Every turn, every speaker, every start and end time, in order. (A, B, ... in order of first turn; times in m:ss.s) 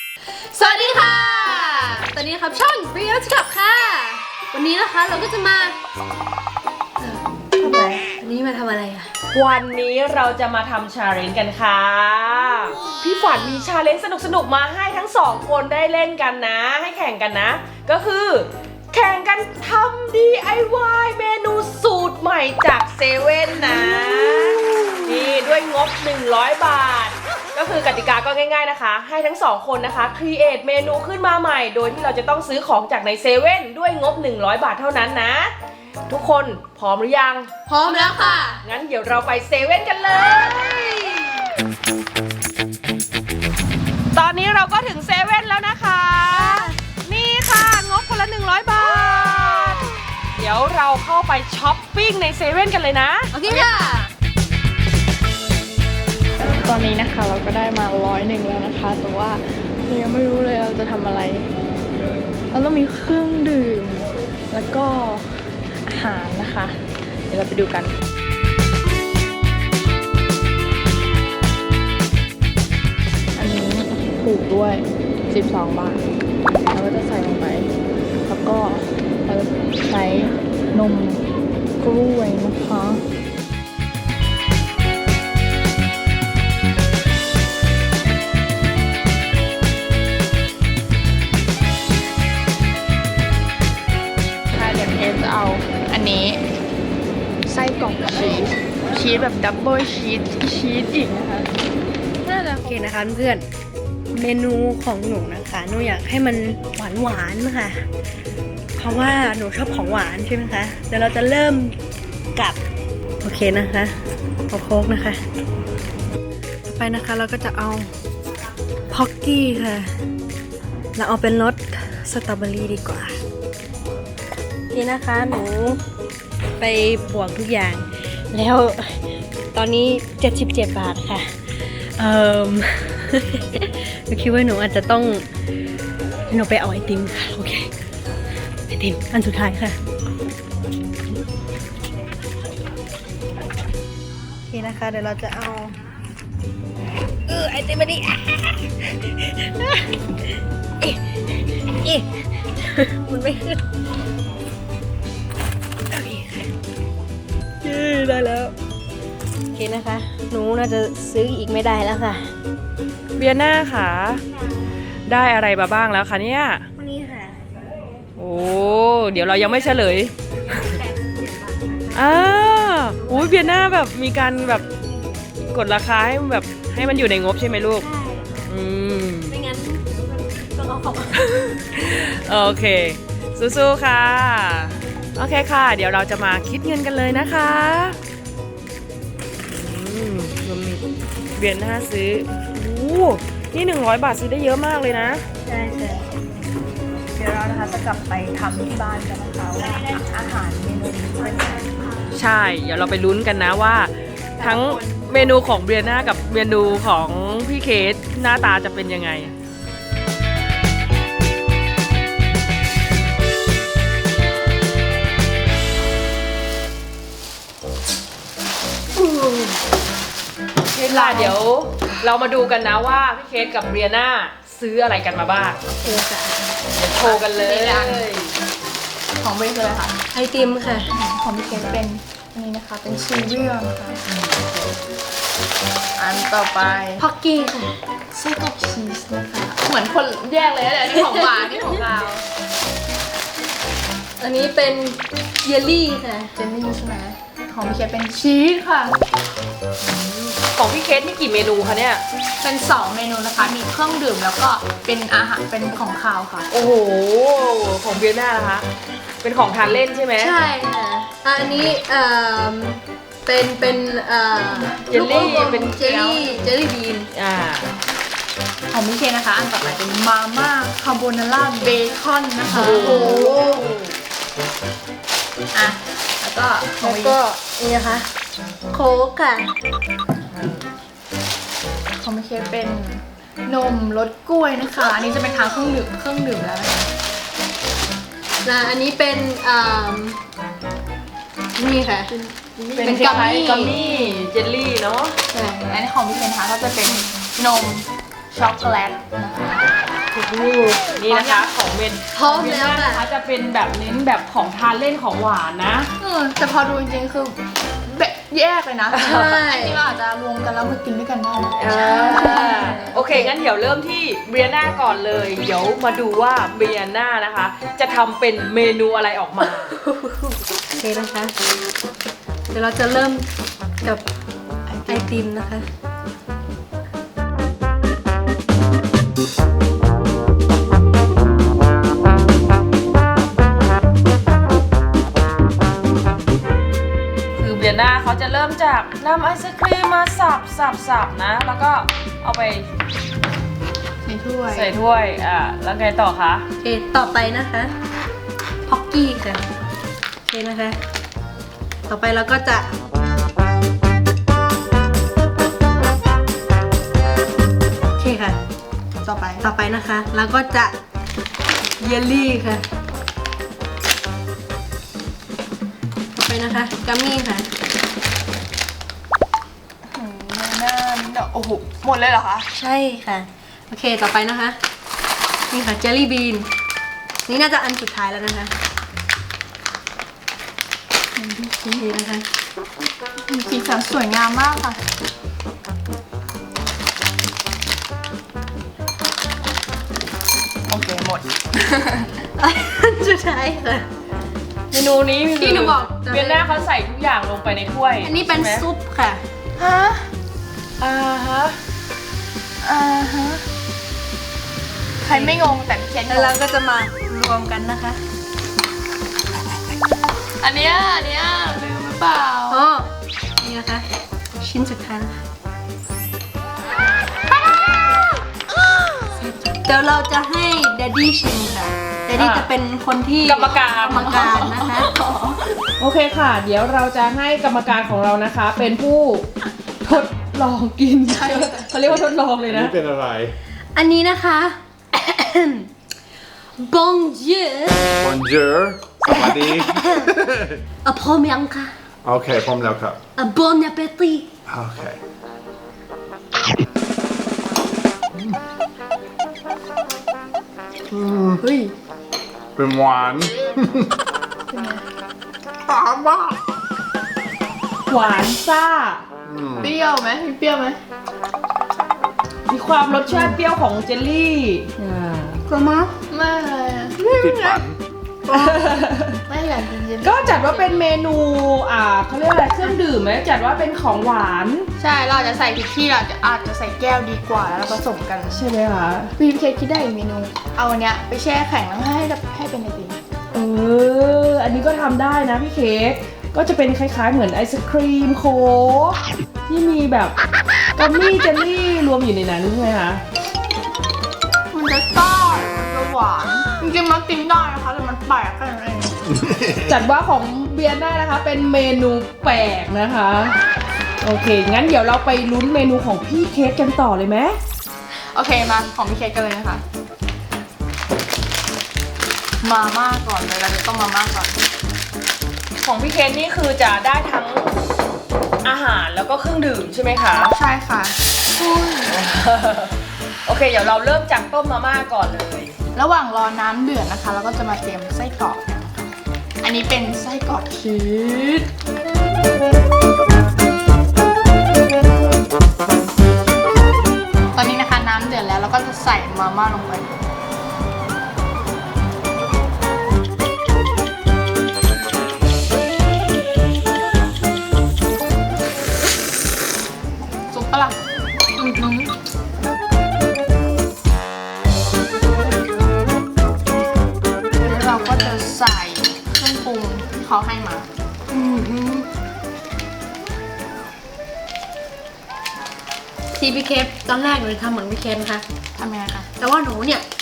0:00.5-0:05.8 A
0:07.0-0:09.1 A
0:09.3-0:35.5 B
0:23.7-0:24.8 A
0:36.1-0:41.4 B
0:37.7-0:38.6 A
0:44.1-0:53.3 B
0:46.3-0:46.7 A
0:53.3-0:54.1 A
0:56.4-1:01.5 C
1:02.5-1:05.3 C
1:05.9-1:06.8 C
1:07.3-1:08.0 C
1:13.4-1:16.1 C
1:16.7-1:17.7 C
1:18.3-1:21.2 C
1:21.8-1:23.0 C
1:34.5-1:36.4 C
1:37.4-1:41.5 C
1:42.2-1:42.7 C
1:42.6-1:43.4 A
1:44.1-1:47.8 A
1:48.8-1:51.8 A
1:52.3-1:52.6 A
1:53.2-1:54.0 A
1:54.5-1:55.2 A
1:56.6-1:57.9 A
1:58.9-1:59.9 A
2:01.0-2:03.2 A
2:04.7-2:05.8 A
2:06.6-2:09.0 A
2:09.5-2:15.2 A
2:16.3-2:17.7 A
2:18.7-2:19.8 A
2:24.5-2:25.8 A
2:27.3-2:29.8 A
2:30.8-2:31.2 A
2:31.8-2:33.6 A
2:35.9-2:36.5 A
2:37.6-2:38.5 A
2:39.5-2:42.3 A
2:43.2-2:44.2 B
2:45.1-2:46.6 B
2:46.8-2:47.4 A
2:48.2-2:50.1 B
2:50.6-2:51.1 A
2:51.9-2:54.6 B
2:53.0-2:53.4 A
2:55.5-2:57.8 B
2:57.8-2:58.5 A
2:58.5-2:59.3 B
2:59.3-3:01.2 A
3:01.2-3:08.0 B
3:09.5-3:10.8 B
3:11.3-3:15.2 B
3:15.4-3:16.0 A
3:17.1-3:21.7 C
3:22.1-3:29.3 B
3:24.4-3:25.1 C
3:39.0-3:39.6 A
3:40.7-3:45.6 B
3:40.9-3:41.4 C
3:45.8-3:46.4 A
3:46.7-3:48.3 B
3:47.0-3:48.1 C
3:49.2-3:50.0 C
3:50.1-3:50.9 A
3:50.9-3:54.0 C
3:54.1-3:54.5 B
3:56.0-3:57.0 C
3:57.0-3:57.8 A
3:58.1-4:02.2 C
4:04.2-4:06.3 A
4:06.4-4:09.0 C
4:09.8-4:12.0 B
4:12.4-4:16.5 C
4:16.5-4:18.6 B
4:19.2-4:20.3 B
4:20.2-4:27.1 A
4:24.7-4:26.4 C
4:24.9-4:25.7 B
4:27.1-4:27.7 B
4:28.7-4:33.3 C
4:32.5-4:33.9 B
4:32.5-4:33.7 A
4:35.5-4:37.2 C
4:36.8-4:38.1 A
4:38.7-4:39.5 A
4:40.3-4:40.6 B
4:42.0-4:46.8 C
4:48.4-4:50.2 A
4:51.6-4:52.1 A
4:52.1-4:54.3 C
4:52.8-4:55.2 B
4:52.8-4:53.8 A
4:55.3-4:55.7 A
4:55.6-4:59.6 C
5:00.1-5:00.9 A
5:01.0-5:05.9 B
5:01.1-5:01.5 C
5:02.1-5:03.1 A
5:06.0-5:12.8 C
5:08.9-5:09.3 B
5:09.0-5:09.8 A
5:11.5-5:19.8 B
5:11.8-5:13.3 A
5:19.7-5:21.3 A
5:22.5-5:23.3 A
5:24.7-5:25.1 C
5:24.9-5:25.6 A
5:37.4-5:42.7 B
5:44.0-5:44.8 C
5:44.5-5:46.4 B
5:46.6-5:47.7 A
5:48.6-5:49.4 A
5:50.2-5:50.8 A
5:51.9-5:52.7 A
5:58.0-5:58.4 A
5:59.0-5:59.5 C
5:59.4-6:00.7 A
6:01.8-6:02.6 A
6:06.1-6:07.5 A
6:09.9-6:12.4 C
6:12.5-6:14.6 A
6:15.5-6:16.5 A
6:17.2-6:18.5 A
6:21.2-6:21.8 C
6:21.7-6:22.2 A
6:23.3-6:24.8 C
6:30.7-6:32.2 C
6:32.4-6:33.9 A
6:34.7-6:38.6 B
6:35.3-6:36.6 A
6:38.0-6:39.2 A
6:39.6-6:40.1 C
6:40.8-6:41.6 B
6:42.6-6:43.4 C
6:45.0-6:46.4 C
6:45.0-6:45.5 A
6:46.1-6:48.0 A
6:50.4-6:52.6 C
6:52.5-6:52.9 A
6:53.4-6:53.8 A
6:54.4-6:55.2 A
6:57.3-6:58.0 C
6:59.1-7:04.9 A
7:02.1-7:02.5 B
7:03.2-7:04.1 B
7:03.9-7:05.6 C
7:05.8-7:09.3 B
7:09.8-7:12.7 B
7:11.0-7:11.7 C
7:12.0-7:13.3 D
7:13.7-7:15.7 A
7:16.6-7:17.9 A
7:18.0-7:20.6 D
7:19.1-7:20.1 A
7:20.8-7:21.7 A
7:22.0-7:23.0 D
7:23.2-7:24.3 A
7:24.5-7:25.0 D
7:30.9-7:31.4 D
7:31.4-7:31.7 C
7:32.6-7:33.9 D
7:34.5-7:34.8 C
7:35.7-7:36.4 D
7:37.9-7:39.0 B
7:39.2-7:39.7 D
7:39.6-7:40.8 C
7:42.5-7:45.4 B
7:43.0-7:43.4 C
7:45.5-7:45.9 D
7:46.1-7:47.0 C
7:47.0-7:47.8 D
7:47.3-7:47.6 A
7:48.3-7:48.6 D
7:48.3-7:49.2 B
7:49.3-7:50.8 C
7:50.0-7:54.7 B
7:54.8-7:58.4 C
7:58.3-7:59.1 B
7:59.2-8:03.0 C
8:03.3-8:10.1 B
8:10.7-8:13.0 B
8:14.5-8:19.0 C
8:19.3-8:19.6 D
8:19.6-8:23.4 B
8:24.0-8:27.4 B
8:28.1-8:29.6 C
8:32.4-8:34.4 C
8:35.6-8:37.6 B
8:38.4-8:40.3 B
8:40.1-8:42.0 C
8:41.8-8:45.5 B
8:45.7-8:51.5 C
8:57.3-8:59.9 C
9:10.3-9:10.8 C
9:11.4-9:11.9 C
9:17.4-9:20.7 C
9:21.1-9:21.9 A
9:26.1-9:28.2 A
9:28.6-9:29.1 C
9:29.2-9:29.8 A